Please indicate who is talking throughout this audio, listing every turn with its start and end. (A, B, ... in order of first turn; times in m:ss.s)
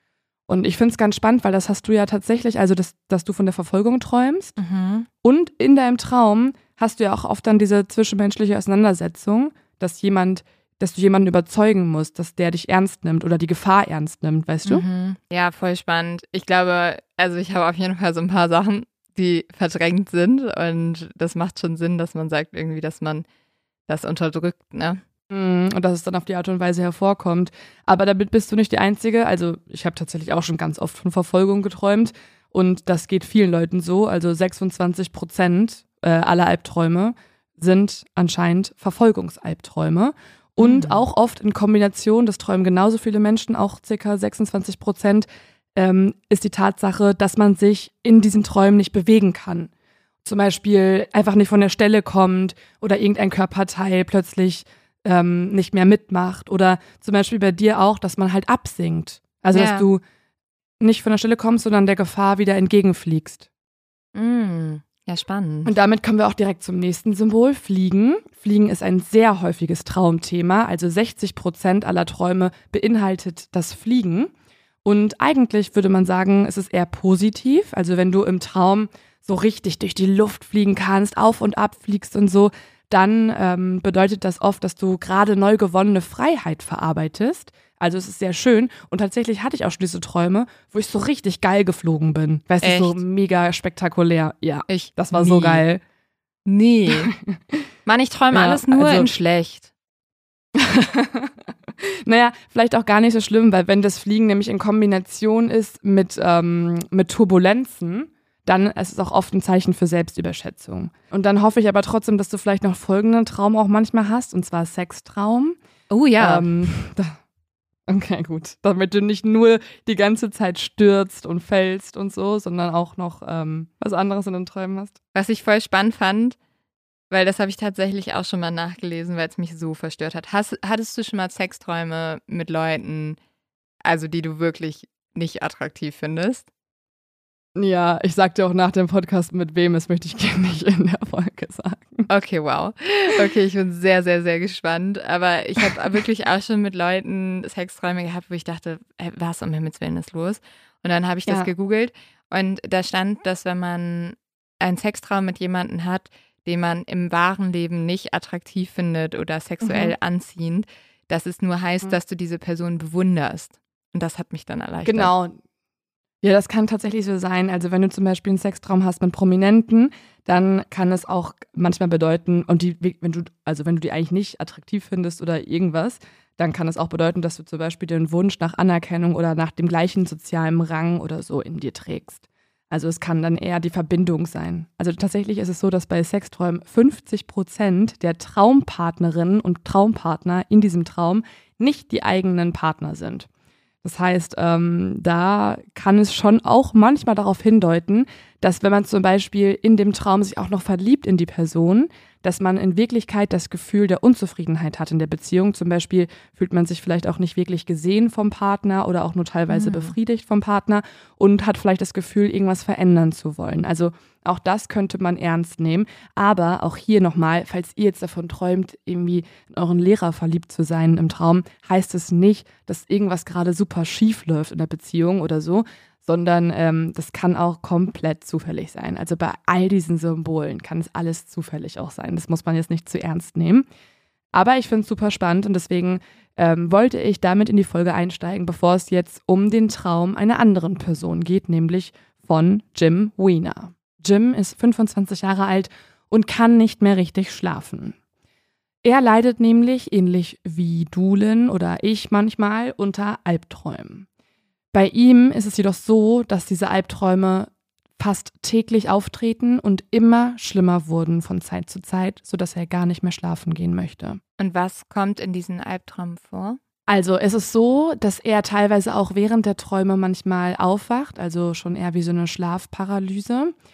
0:00.5-0:04.6 A
0:04.6-0:05.1 B
0:05.2-0:14.8 A
0:14.6-0:23.2 B
0:23.9-0:25.0 B
0:25.3-0:49.7 A
0:40.6-0:41.0 B
0:50.2-1:00.0 A
0:59.5-0:59.9 B
1:00.8-1:03.5 A
1:04.1-1:05.7 B
1:05.6-1:14.3 A
1:14.8-1:35.8 A
1:32.6-1:33.0 B
1:34.7-1:35.6 B
1:36.4-1:37.1 B
1:36.9-1:37.6 A
1:37.8-1:39.7 B
1:38.3-1:39.1 A
1:40.6-1:55.6 A
1:55.9-1:56.5 B
1:56.2-1:57.2 A
1:57.9-2:05.0 A
2:05.1-2:06.4 B
2:07.1-2:13.2 B
2:13.8-2:16.4 B
2:17.6-2:22.1 A
2:22.1-2:45.1 B
2:39.6-2:40.0 A
2:44.8-2:45.4 A
2:46.2-3:13.3 A
3:13.8-3:53.6 A
3:29.5-3:29.9 B
3:54.3-4:08.0 A
4:08.8-4:14.0 A
4:14.7-4:24.2 A
4:24.4-4:26.6 B
4:26.9-4:33.5 A